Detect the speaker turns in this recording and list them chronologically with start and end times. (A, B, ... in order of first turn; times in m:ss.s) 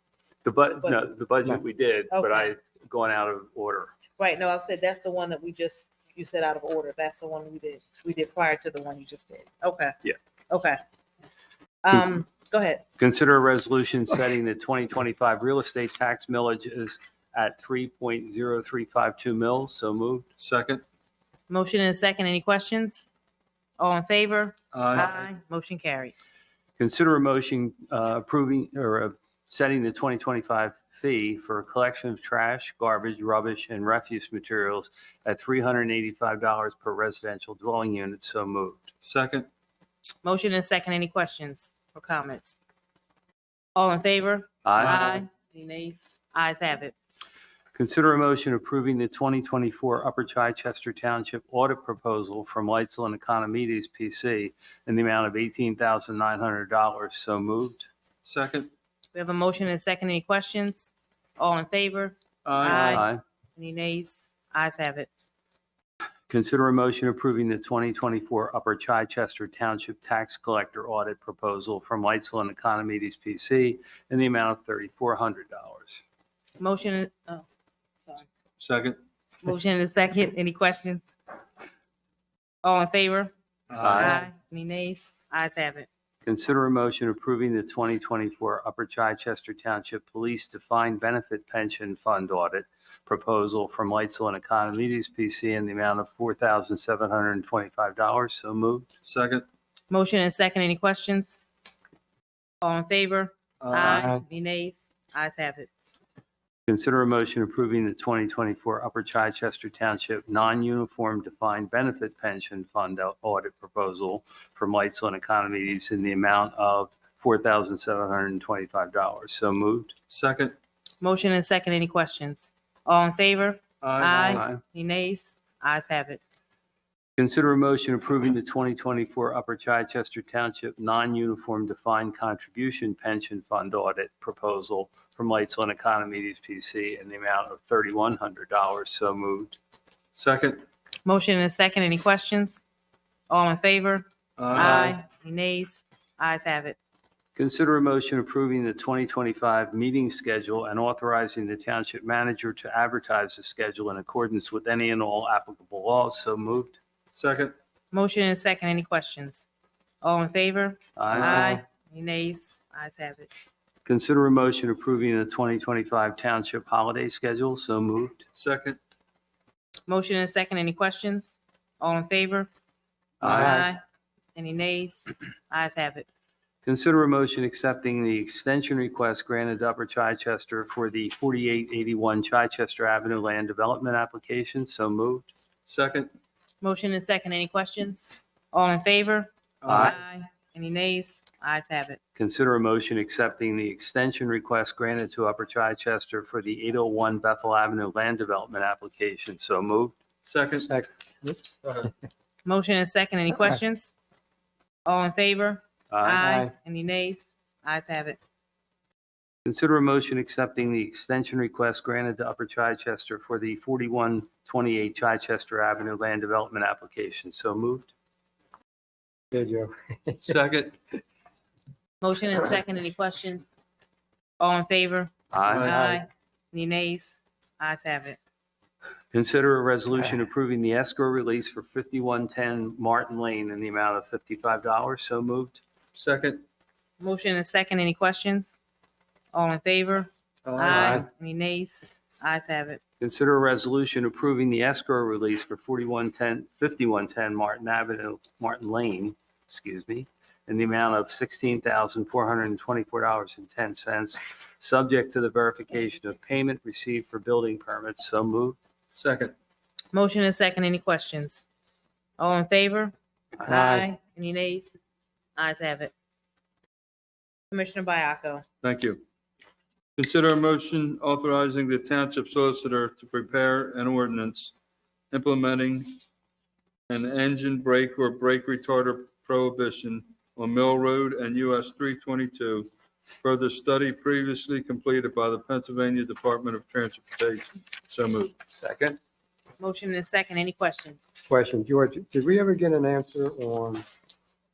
0:00.4-0:03.9 A
0:02.1-0:02.5 B
0:04.2-0:10.0 B
0:10.5-0:10.8 B
0:11.8-0:12.8 B
0:13.0-0:20.2 A
0:20.4-0:20.8 C
0:21.5-0:23.1 B
0:23.8-0:26.1 B
0:24.7-0:25.2 C
0:26.8-0:38.9 A
0:39.0-0:39.5 C
0:40.2-0:42.6 B
0:43.7-0:46.9 B
0:44.6-0:45.2 A
0:47.7-0:57.9 A
0:58.2-0:58.7 C
0:59.1-1:05.1 B
1:02.4-1:03.0 C
1:02.6-1:03.2 A
1:06.3-1:16.0 A
1:16.6-1:17.4 B
1:18.6-1:19.0 C
1:19.4-1:21.2 B
1:22.6-1:23.3 B
1:23.7-1:24.2 C
1:23.8-1:24.2 A
1:23.9-1:25.9 B
1:26.2-1:38.9 A
1:39.0-1:39.4 C
1:39.9-1:41.4 B
1:42.6-1:45.7 B
1:43.6-1:44.1 C
1:43.8-1:44.2 D
1:46.7-1:59.9 A
2:00.1-2:00.6 C
2:01.0-2:06.2 B
2:03.8-2:04.4 C
2:04.3-2:04.6 A
2:07.2-2:19.6 A
2:20.2-2:20.6 C
2:21.0-2:22.6 B
2:23.3-2:26.8 B
2:24.4-2:25.0 C
2:27.4-2:36.8 A
2:37.1-2:37.5 C
2:37.9-2:39.5 B
2:40.0-2:43.3 B
2:41.0-2:41.6 A
2:43.8-2:48.2 A
2:48.3-2:48.8 C
2:49.9-2:52.5 B
2:53.2-2:53.6 A
2:53.2-2:53.8 B
2:54.3-2:56.1 B
2:56.6-3:05.3 A
3:05.7-3:06.1 C
3:06.6-3:12.0 B
3:09.6-3:10.0 C
3:09.7-3:09.9 A
3:12.2-3:20.0 A
3:20.2-3:20.7 C
3:20.6-3:21.6 D
3:21.6-3:21.9 C
3:22.4-3:23.9 B
3:24.8-3:28.2 B
3:25.9-3:26.3 A
3:26.2-3:26.5 D
3:29.4-3:37.9 A
3:39.3-3:40.3 D
3:40.2-3:40.8 C
3:42.0-3:43.5 B
3:44.4-3:48.2 B
3:45.3-3:45.8 A
3:45.5-3:45.8 C
3:49.1-3:55.6 A
3:55.9-3:56.4 C
3:57.0-3:58.6 B
3:59.3-4:02.8 B
4:00.4-4:01.0 C
4:03.0-4:18.6 A
4:18.9-4:19.3 C
4:19.9-4:21.4 B
4:22.2-4:24.7 B
4:23.5-4:23.9 D
4:25.4-4:25.9 B
4:27.5-4:28.4 B
4:28.6-4:29.0 C
4:30.0-4:34.5 C
4:35.1-4:36.0 C
4:36.9-4:42.7 C
4:43.2-4:48.5 C
4:48.5-4:49.0 D
4:49.6-4:51.0 B
4:51.3-4:53.8 D